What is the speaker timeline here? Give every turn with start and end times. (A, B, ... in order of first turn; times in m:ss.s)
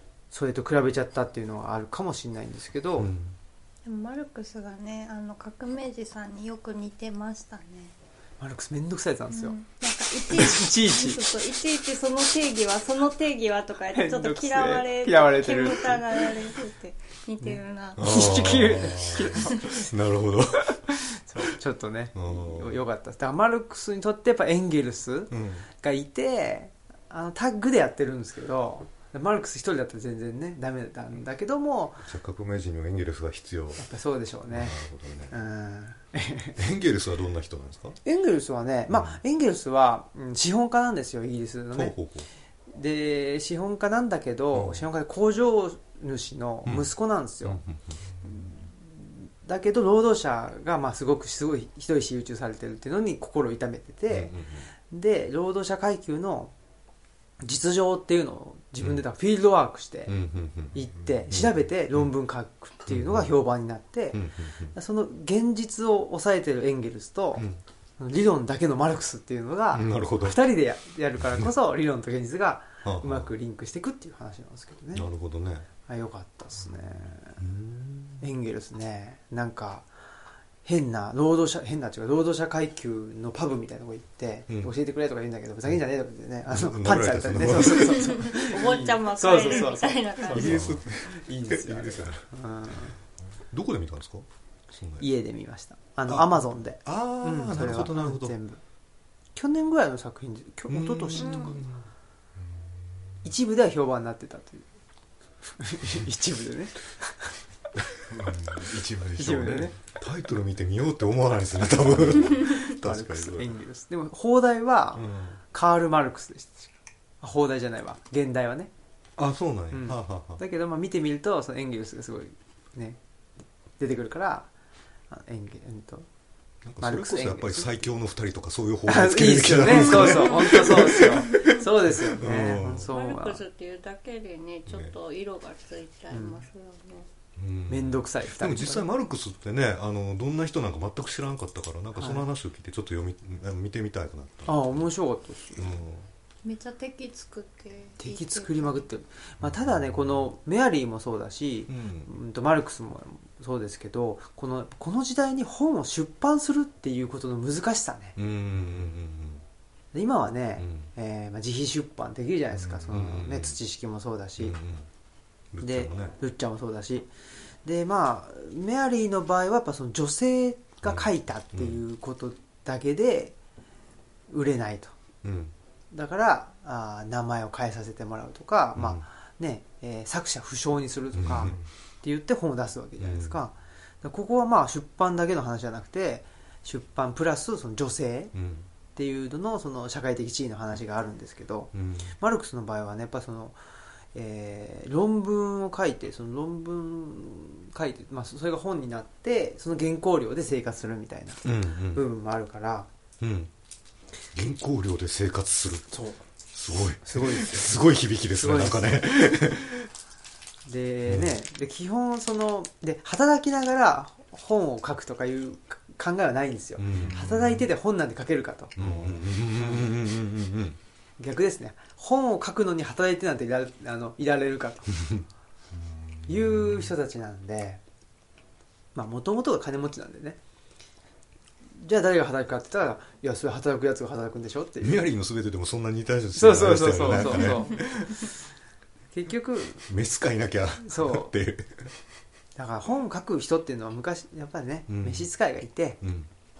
0:00.3-0:03.1 A
0:03.0-0:03.4 B
0:03.8-0:07.9 C
0:08.4-0:09.6 A
0:09.3-0:18.7 C
0:10.2-0:11.2 A
0:13.9-0:16.4 A
0:17.4-0:19.9 A
0:18.0-0:20.8 B
0:19.4-0:19.6 C
0:20.9-0:32.0 A
0:22.1-0:22.8 B
0:25.3-0:25.6 B
0:32.0-0:33.8 B
0:33.8-0:34.8 A
0:34.5-0:35.3 B
0:35.3-0:36.6 A
0:36.6-0:38.0 B
0:38.0-0:41.9 A
0:38.9-0:39.2 B
0:41.7-0:42.3 B
0:42.7-0:47.6 A
0:44.5-0:44.8 B
0:46.6-0:46.9 B
0:47.4-0:48.0 B
0:48.2-0:54.3 A
0:54.1-0:54.7 B
0:54.9-0:56.5 A
0:57.4-1:00.2 A
1:00.0-1:00.8 B
1:00.7-1:07.4 A
1:01.3-1:02.1 B
1:02.9-1:03.3 B
1:04.1-1:04.7 B
1:08.0-1:15.1 A
1:09.7-1:10.4 B
1:11.2-1:11.5 B
1:12.8-1:13.3 B
1:14.9-1:15.7 B
1:15.8-1:17.4 A
1:17.4-1:18.2 B
1:18.2-1:19.9 A
1:20.6-1:33.0 A
1:24.5-1:24.7 B
1:26.5-1:28.3 B
1:27.7-1:30.8 C
1:30.3-1:32.7 B
1:33.5-1:35.1 B
1:35.0-1:38.6 A
1:36.1-1:38.4 B
1:39.3-1:41.6 A
1:40.7-1:41.9 B
1:41.1-1:41.6 C
1:42.4-1:43.1 D
1:43.2-1:44.6 A
1:45.6-1:47.3 A
1:48.1-1:49.7 D
1:49.2-1:49.8 A
1:50.0-1:53.5 B
1:52.0-1:56.7 A
1:54.9-1:55.4 B
1:57.2-1:58.7 A
1:59.2-2:00.4 B
1:59.7-2:03.0 A
2:03.8-2:04.5 A
2:05.1-2:06.1 A
2:06.6-2:12.9 B
2:06.8-2:07.8 A
2:08.8-2:13.4 A
2:09.7-2:11.6 C
2:12.9-2:17.1 C
2:14.7-2:14.9 B
2:16.1-2:16.4 A
2:17.4-2:24.8 B
2:17.7-2:18.9 A
2:22.0-2:22.2 A
2:24.4-2:25.8 A
2:25.6-2:26.1 B
2:26.4-2:28.8 C
2:28.0-2:38.2 A
2:29.4-2:30.0 B
2:31.7-2:32.1 B
2:38.2-2:39.4 B
2:39.9-2:44.6 A
2:40.6-2:40.9 B
2:42.6-2:43.6 B
2:44.4-2:44.9 B
2:45.5-2:46.1 B
2:45.6-2:47.1 A
2:47.6-2:53.4 A
2:50.8-2:51.8 B
2:54.3-2:54.9 A
2:55.2-2:55.5 B
2:55.9-3:08.3 A
2:58.7-2:59.0 B
3:01.1-3:01.6 B
3:03.0-3:03.4 B
3:08.3-3:08.7 B
3:08.9-3:13.6 A
3:11.7-3:12.1 B
3:14.1-3:22.9 A
3:21.4-3:22.0 B
3:23.2-3:23.5 B
3:24.3-3:25.9 B
3:25.9-3:26.2 A
3:26.5-3:29.9 B
3:27.0-3:27.7 A
3:28.3-3:29.0 A
3:30.6-3:38.8 A
3:31.1-3:31.3 B
3:36.8-3:37.6 B
3:36.9-3:37.7 D
3:38.8-3:40.8 B
3:38.8-3:39.2 D
3:39.5-3:39.9 A
3:41.2-3:45.1 A
3:45.7-3:46.8 D
3:46.3-3:47.8 A
3:48.9-3:50.4 A
3:51.7-3:55.0 A
3:54.8-3:58.3 B
3:56.4-3:57.8 A
3:59.1-3:59.8 A
3:59.9-4:01.9 B
4:00.8-4:01.3 A
4:02.6-4:06.0 A
4:04.9-4:05.3 B
4:06.0-4:06.3 B